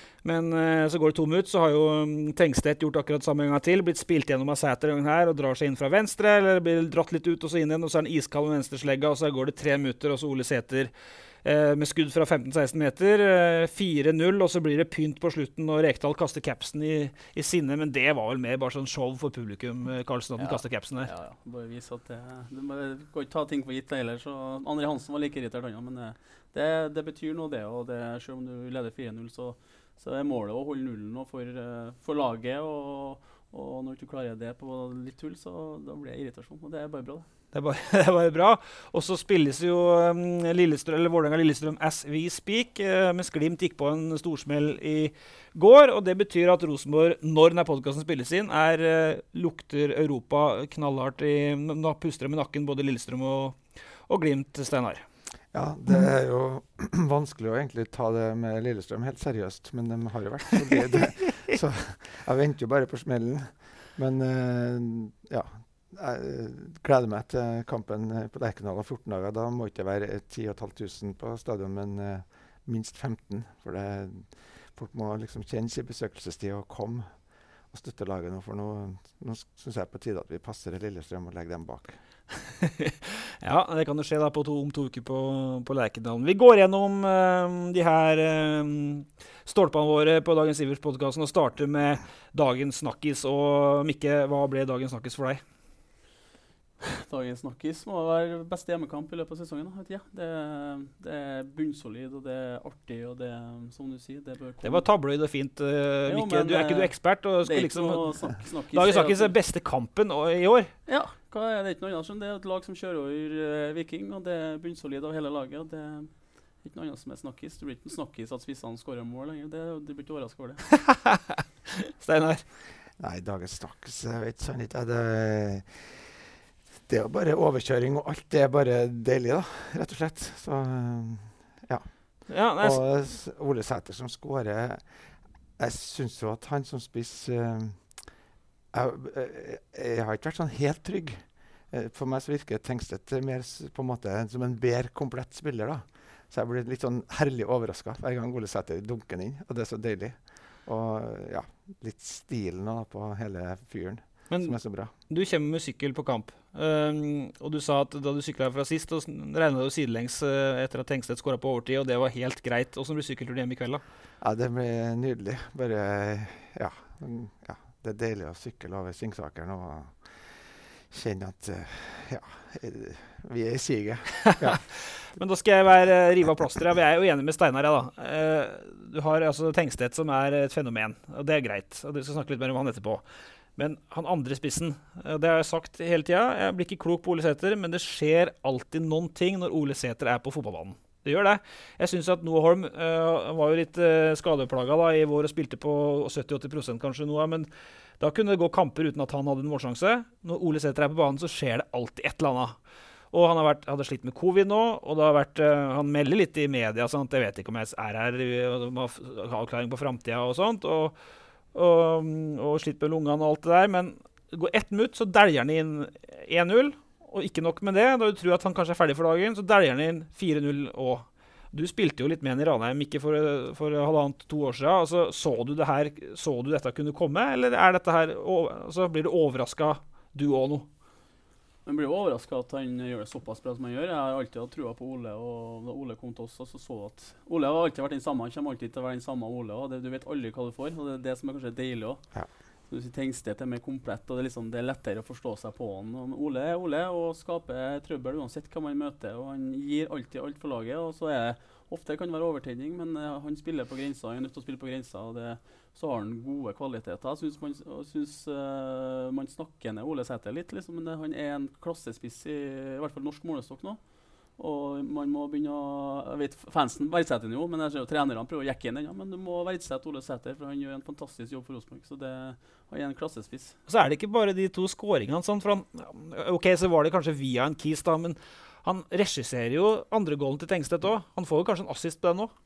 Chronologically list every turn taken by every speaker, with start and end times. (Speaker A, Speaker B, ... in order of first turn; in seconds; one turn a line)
Speaker A: 0.2-10.9
Speaker A: 11.4-21.1
Speaker B: 20.4-37.3
Speaker A: 37.5-55.0
Speaker C: 55.5-82.0
Speaker A: 82.6-95.4
Speaker B: 96.8-104.9
Speaker A: 104.6-110.7
Speaker B: 106.1-109.4
Speaker B: 110.9-120.7
Speaker A: 120.8-121.4
Speaker A: 122.0-122.5
Speaker C: 123.0-126.2
Speaker C: 126.9-138.2
Speaker A: 132.3-132.8
Speaker C: 138.7-154.9
Speaker A: 154.3-163.8
Speaker C: 164.2-174.7
Speaker A: 174.5-183.0
Speaker A: 183.6-197.5
Speaker A: 198.0-202.6
Speaker A: 203.1-211.0
Speaker A: 211.5-230.7
Speaker B: 231.7-273.6
Speaker A: 273.7-282.3